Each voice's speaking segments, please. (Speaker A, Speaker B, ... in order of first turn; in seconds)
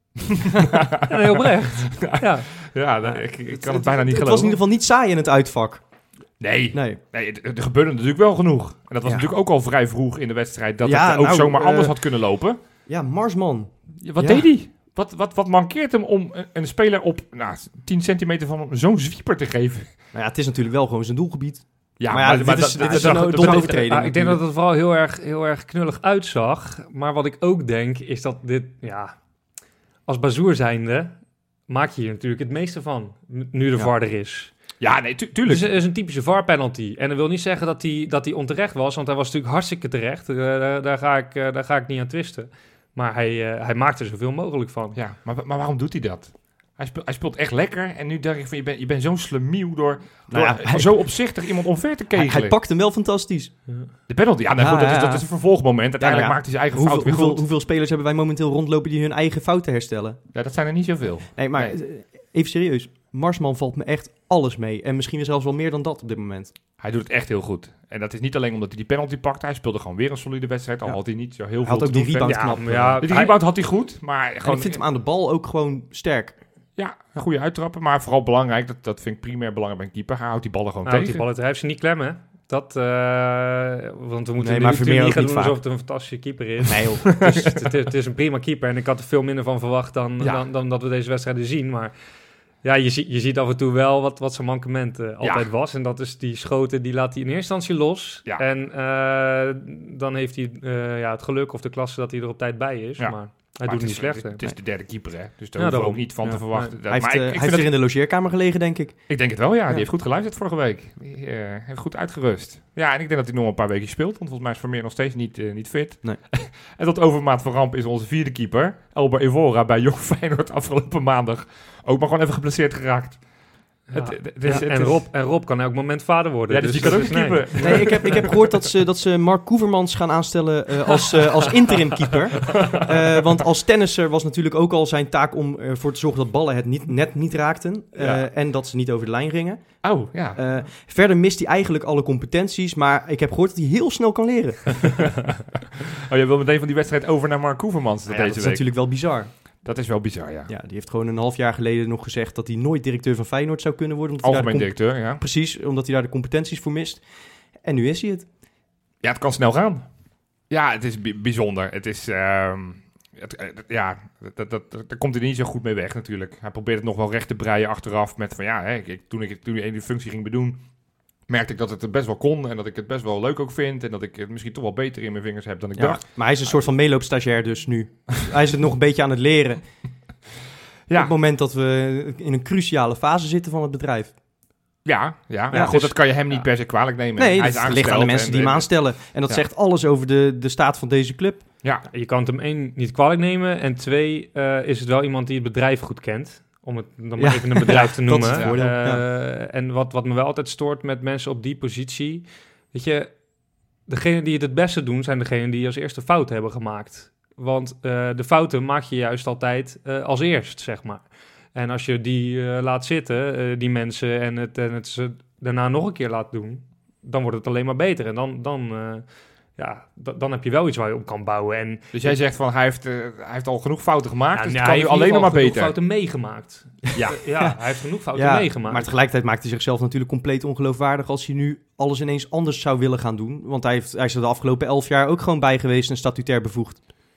Speaker A: 0.2-4.6, 6.4-12.6, 14.0-19.9, 22.0-24.4, 34.8-35.7, 44.9-52.5, 54.1-57.4, 60.3-61.8, 66.8-74.8, 76.8-81.2, 87.0-87.5, 95.2-95.5, 103.0-107.7, 109.1-123.2, 123.9-125.0, 126.5-128.4, 132.5-132.9, 138.0-138.2, 139.8-140.4, 145.8-148.7, 149.6-150.5, 154.2-155.2, 159.0-159.9, 160.5-170.6, 171.3-176.0, 180.9-181.1, 184.8-188.7, 198.3-198.6, 221.9-225.7, 226.9-227.2
Speaker B: 1.0-2.5, 22.8-29.2, 30.1-34.5, 35.5-45.0, 72.2-73.3, 80.8-91.9, 92.6-104.4, 105.5-106.7, 123.9-128.0, 191.9-203.1, 203.9-219.0, 219.6-222.1, 224.3-228.9
Speaker C: 3.0-5.8, 6.7-7.0, 10.8-11.9, 12.9-14.5, 20.1-24.4, 50.3-50.9, 52.1-53.5, 54.6-55.2, 56.0-60.2, 61.3-66.5, 71.6-73.1, 74.4-76.4, 84.4-85.6, 86.7-87.0, 106.2-109.0, 127.6-139.8, 140.3-145.1, 148.1-149.3, 150.5-157.0, 157.6-158.3, 175.8-179.6, 180.9-184.1, 185.5-185.9, 187.2-191.4, 197.2-199.0, 226.9-227.6, 228.1-236.8